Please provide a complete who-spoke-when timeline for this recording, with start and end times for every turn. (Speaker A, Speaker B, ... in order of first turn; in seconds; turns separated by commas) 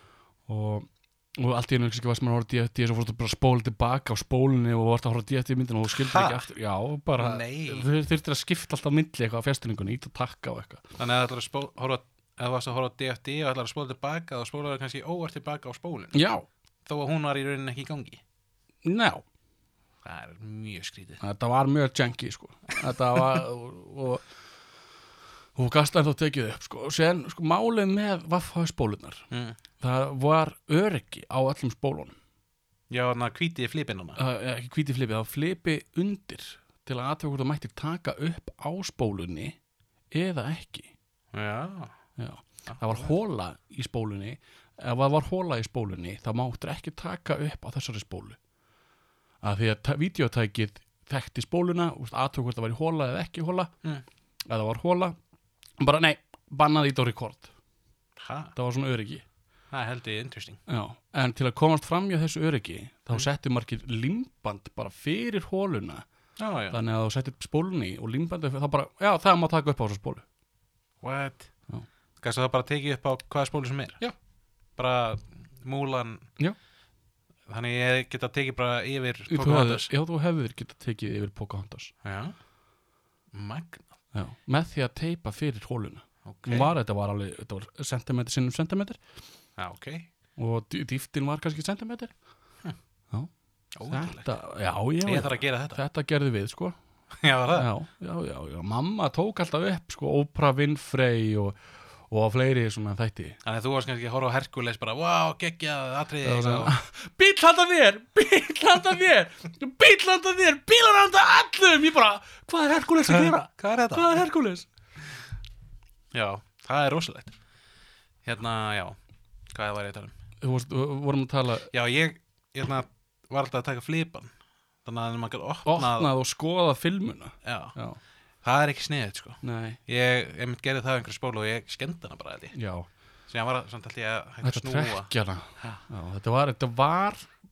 Speaker A: 0.4-10.8, Speaker B: 5.9-6.5, Speaker B: 7.2-7.9, Speaker B: 11.0-16.2, Speaker A: 16.1-16.4, Speaker B: 16.9-18.2, Speaker A: 18.8-19.2, Speaker B: 20.0-21.2, Speaker A: 21.2-24.2, Speaker A: 25.5-29.3, Speaker B: 29.3-29.6, Speaker A: 29.8-32.1, Speaker B: 32.9-34.2, Speaker A: 34.2-39.6, Speaker A: 40.1-40.9, Speaker B: 41.3-42.0, Speaker A: 42.2-48.4, Speaker B: 42.6-43.1, Speaker A: 49.4-53.7, Speaker A: 54.5-55.1, Speaker A: 55.8-57.5, Speaker B: 58.2-58.5, Speaker A: 58.5-59.2, Speaker B: 59.7-60.6, Speaker A: 60.7-66.0, Speaker B: 66.4-66.8, Speaker A: 66.7-70.2, Speaker B: 71.0-71.5, Speaker B: 72.2-74.0, Speaker B: 74.8-76.3, Speaker B: 77.5-79.9, Speaker A: 79.3-81.9, Speaker B: 82.0-82.3, Speaker B: 83.3-83.9, Speaker A: 84.1-89.1, Speaker B: 86.2-86.7, Speaker B: 89.5-90.1, Speaker A: 90.3-92.4, Speaker A: 93.1-96.8, Speaker B: 93.7-94.3, Speaker B: 95.0-95.8, Speaker B: 97.1-97.7, Speaker A: 97.5-103.4, Speaker B: 103.4-106.7, Speaker A: 106.2-114.7, Speaker B: 113.0-114.1, Speaker B: 116.1-117.3, Speaker B: 118.2-119.0, Speaker B: 119.5-120.1, Speaker A: 120.4-121.7, Speaker B: 121.7-126.1, Speaker A: 125.6-128.0, Speaker B: 127.4-127.8, Speaker B: 128.4-132.6, Speaker A: 129.4-129.8, Speaker A: 132.5-132.9, Speaker B: 133.3-135.8, Speaker A: 134.4-137.3